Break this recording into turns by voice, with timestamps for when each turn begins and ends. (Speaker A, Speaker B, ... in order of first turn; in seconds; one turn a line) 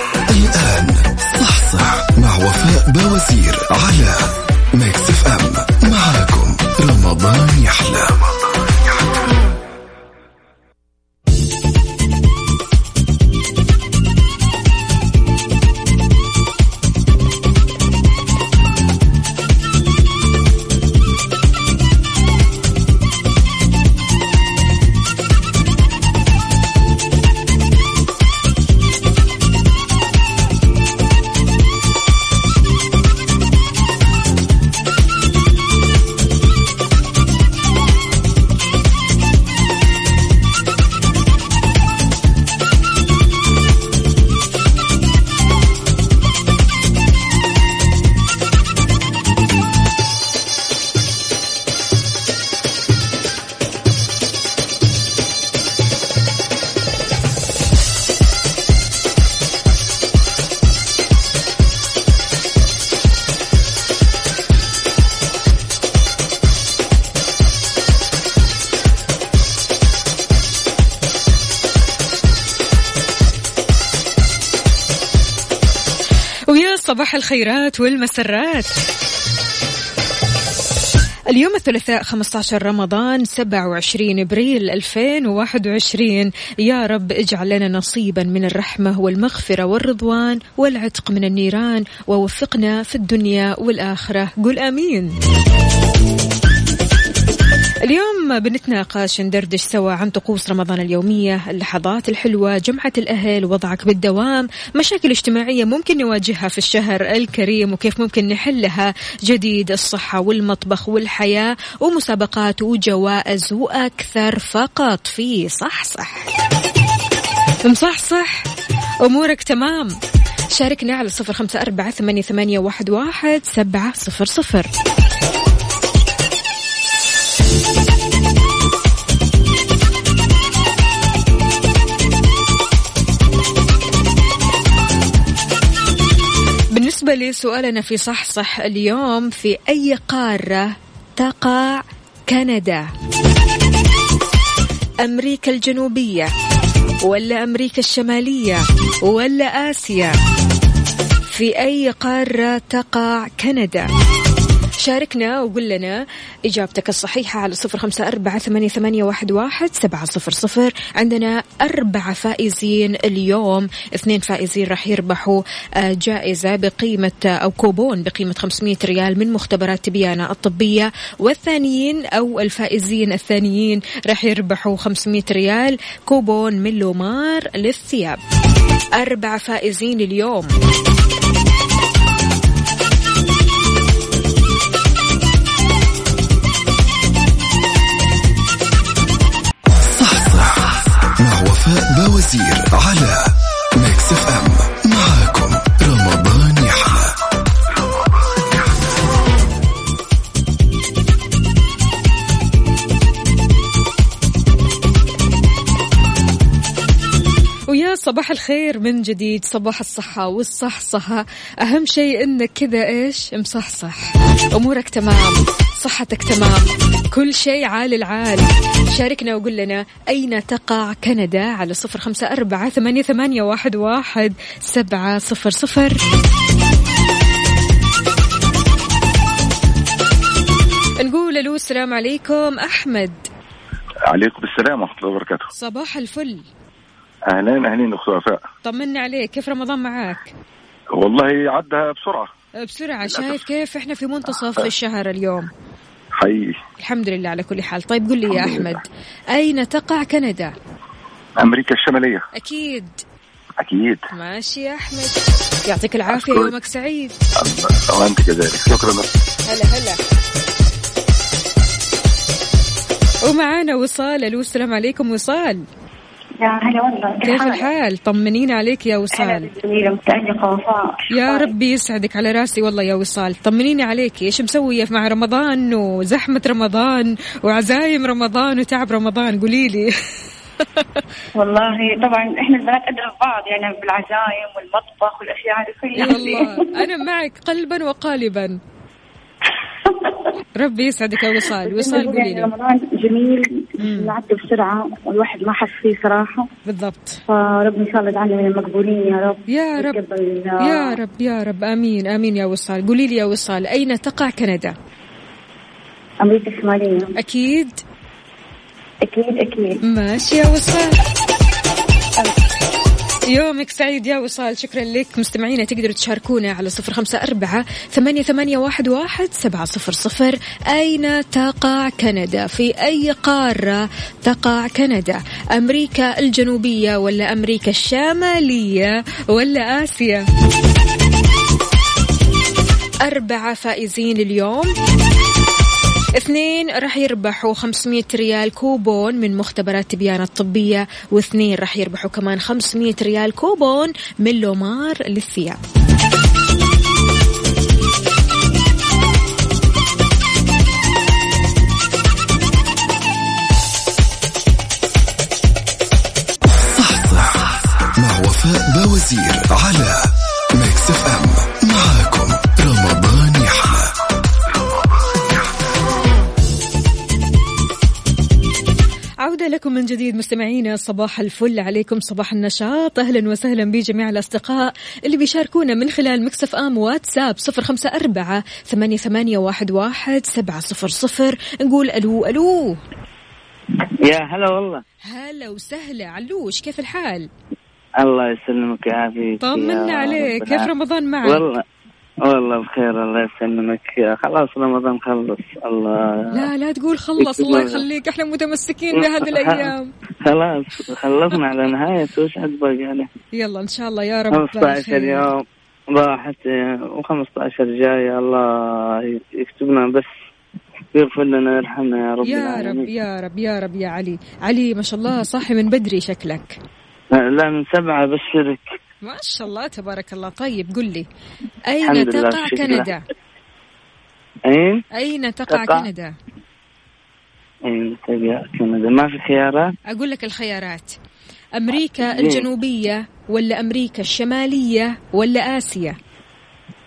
Speaker A: 0.3-8.3
Speaker B: 76.5-78.8
Speaker B: 81.3-95.1
Speaker B: 97.8-116.3
Speaker B: 117.6-118.5
Speaker B: 119.0-119.9
Speaker B: 120.5-124.7
Speaker B: 136.7-142.9
Speaker B: 145.0-146.3
Speaker B: 147.0-150.2
Speaker B: 151.3-153.9
Speaker B: 154.8-178.2
Speaker B: 178.9-180.5
Speaker A: 189.8-197.2
Speaker B: 207.7-226.0
Speaker B: 231.0-233.3
Speaker C: 234.1-235.5
Speaker B: 235.5-236.4
Speaker C: 237.3-238.4
Speaker B: 238.7-240.3
Speaker C: 241.0-242.3
Speaker B: 242.6-245.5
Speaker C: 243.0-243.5
Speaker C: 244.4-244.7
Speaker C: 246.2-246.6
Speaker B: 246.8-250.5
Speaker C: 248.3-248.8
Speaker C: 251.4-252.2
Speaker B: 252.3-252.9
Speaker C: 253.6-254.0
Speaker B: 254.1-257.1
Speaker C: 256.1-256.5
Speaker C: 257.4-259.1
Speaker B: 259.5-260.0
Speaker B: 263.2-265.6
Speaker D: 266.4-267.7
Speaker B: 267.2-269.5
Speaker D: 269.2-271.5
Speaker B: 271.1-279.9
Speaker B: 280.6-281.0
Speaker D: 281.4-286.8
Speaker B: 286.0-288.6
Speaker D: 289.8-290.2
Speaker B: 290.6-292.5
Speaker D: 291.6-296.5
Speaker B: 293.8-294.2
Speaker B: 296.7-297.2
Speaker D: 297.3-301.0
Speaker B: 299.5-300.0
Speaker B: 300.6-304.8
Speaker D: 306.2-307.2
Speaker B: 307.2-307.8
Speaker D: 309.0-309.8
Speaker B: 309.8-310.9
Speaker D: 312.2-312.6
Speaker B: 313.3-330.2
Speaker B: 333.0-334.7
Speaker B: 336.2-345.6
Speaker A: 356.8-363.9
Speaker B: 369.2-382.8
Speaker E: 384.0-384.8
Speaker B: 385.1-387.3
Speaker E: 388.0-390.7
Speaker B: 389.4-391.5
Speaker E: 391.2-391.6
Speaker E: 392.2-396.5
Speaker B: 396.3-399.9
Speaker E: 397.2-397.8
Speaker E: 398.9-399.7
Speaker E: 400.2-403.1
Speaker B: 403.3-405.3
Speaker E: 404.3-410.1
Speaker E: 410.9-412.9
Speaker B: 412.2-416.6
Speaker E: 417.1-418.7
Speaker B: 419.0-421.1
Speaker B: 421.7-423.0
Speaker E: 421.8-422.9
Speaker E: 424.5-424.8
Speaker B: 424.9-426.1
Speaker E: 425.5-425.9
Speaker E: 427.7-429.7
Speaker B: 429.9-431.0
Speaker B: 431.6-436.0
Speaker E: 431.9-432.5